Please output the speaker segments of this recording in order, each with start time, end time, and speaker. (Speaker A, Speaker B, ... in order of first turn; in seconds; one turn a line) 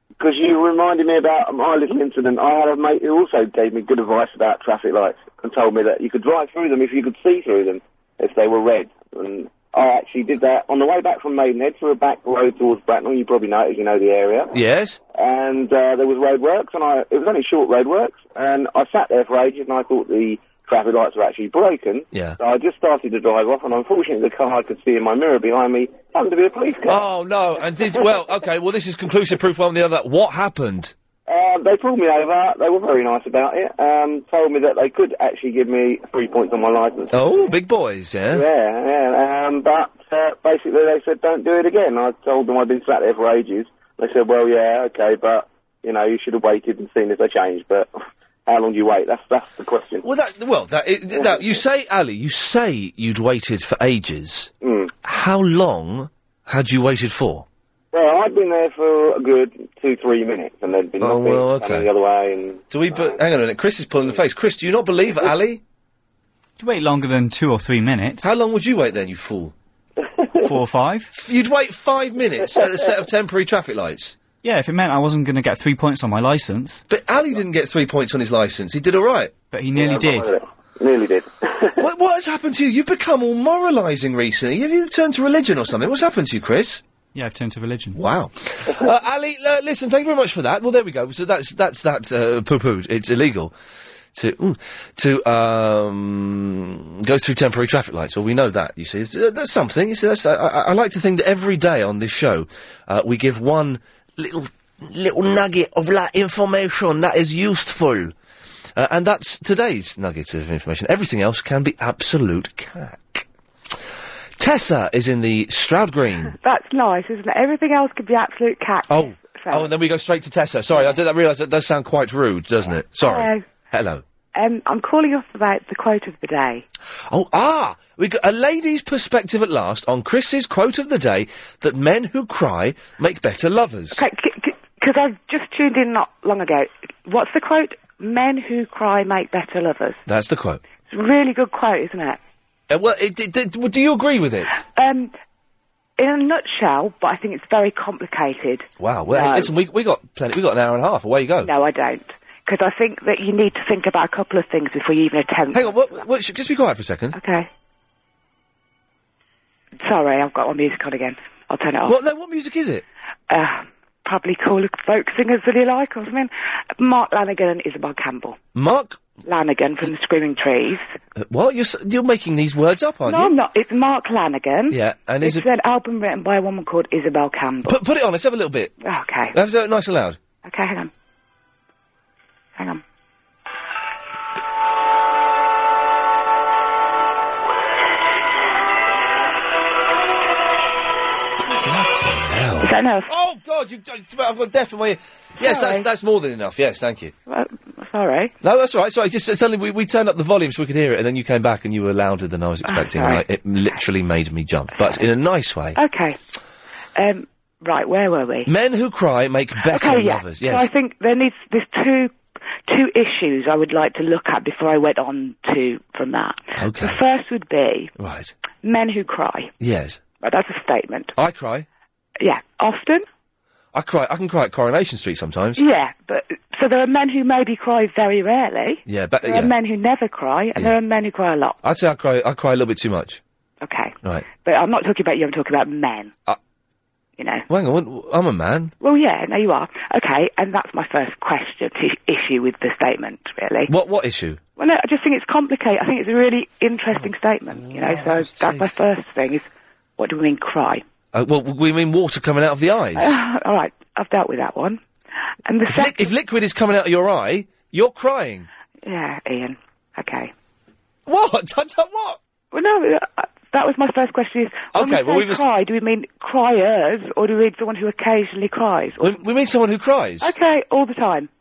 Speaker A: 0.2-14.5
Speaker B: 14.5-15.0
Speaker A: 15.1-27.0
Speaker B: 22.1-22.4
Speaker B: 26.9-30.9
Speaker A: 31.3-37.1
Speaker B: 37.1-38.4
Speaker A: 38.3-47.9
Speaker A: 48.5-50.0
Speaker B: 50.0-54.5
Speaker A: 51.1-51.6
Speaker A: 54.6-54.9
Speaker B: 55.0-57.4
Speaker A: 57.9-63.2
Speaker B: 61.0-61.9
Speaker B: 62.7-65.6
Speaker C: 66.6-68.3
Speaker B: 68.2-69.5
Speaker C: 70.4-71.1
Speaker B: 71.1-74.2
Speaker C: 74.4-76.8
Speaker B: 76.9-79.3
Speaker C: 79.5-80.3
Speaker A: 79.7-81.8
Speaker B: 81.8-86.8
Speaker C: 87.1-88.0
Speaker B: 87.9-93.5
Speaker B: 94.1-108.1
Speaker B: 108.8-113.2
Speaker B: 114.4-116.3
Speaker D: 116.4-119.7
Speaker B: 118.9-124.0
Speaker D: 123.0-123.4
Speaker D: 124.3-126.6
Speaker B: 127.1-134.0
Speaker D: 133.9-140.0
Speaker B: 140.1-140.6
Speaker D: 140.9-142.2
Speaker B: 142.7-144.6
Speaker D: 144.7-145.1
Speaker D: 146.0-149.5
Speaker B: 148.8-151.5
Speaker D: 151.4-156.0
Speaker B: 155.5-157.2
Speaker D: 157.1-157.5
Speaker D: 159.8-162.0
Speaker B: 161.8-162.8
Speaker D: 163.3-168.4
Speaker B: 168.5-169.0
Speaker D: 169.2-170.9
Speaker B: 171.2-173.3
Speaker D: 173.1-177.8
Speaker B: 174.7-175.4
Speaker B: 177.7-178.7
Speaker D: 178.8-179.3
Speaker B: 179.3-180.2
Speaker D: 180.4-180.9
Speaker D: 182.6-182.8
Speaker B: 191.5-197.1
Speaker D: 192.6-193.1
Speaker D: 195.4-195.8
Speaker D: 197.3-198.3
Speaker B: 198.4-205.8
Speaker D: 202.6-203.8
Speaker D: 204.8-205.0
Speaker D: 205.7-206.2
Speaker D: 206.9-208.5
Speaker B: 208.4-210.7
Speaker D: 209.6-212.1
Speaker D: 212.7-217.9
Speaker B: 216.6-217.0
Speaker B: 218.0-218.3
Speaker D: 218.6-219.5
Speaker B: 219.6-220.0
Speaker D: 220.2-221.1
Speaker B: 221.2-221.7
Speaker D: 222.2-223.0
Speaker B: 223.7-225.6
Speaker D: 225.6-231.6
Speaker B: 228.8-229.5
Speaker B: 231.6-233.2
Speaker D: 233.6-236.1
Speaker D: 237.2-237.4
Speaker B: 237.5-238.7
Speaker D: 238.8-243.7
Speaker B: 243.7-244.4
Speaker D: 244.6-249.4
Speaker B: 246.9-248.8
Speaker D: 250.0-250.8
Speaker B: 251.1-253.2
Speaker D: 253.0-254.8
Speaker D: 255.5-256.1
Speaker B: 255.7-258.5
Speaker D: 258.8-260.3
Speaker B: 261.1-262.2
Speaker D: 262.5-269.2
Speaker B: 264.7-265.4
Speaker B: 269.0-270.3
Speaker D: 270.2-271.3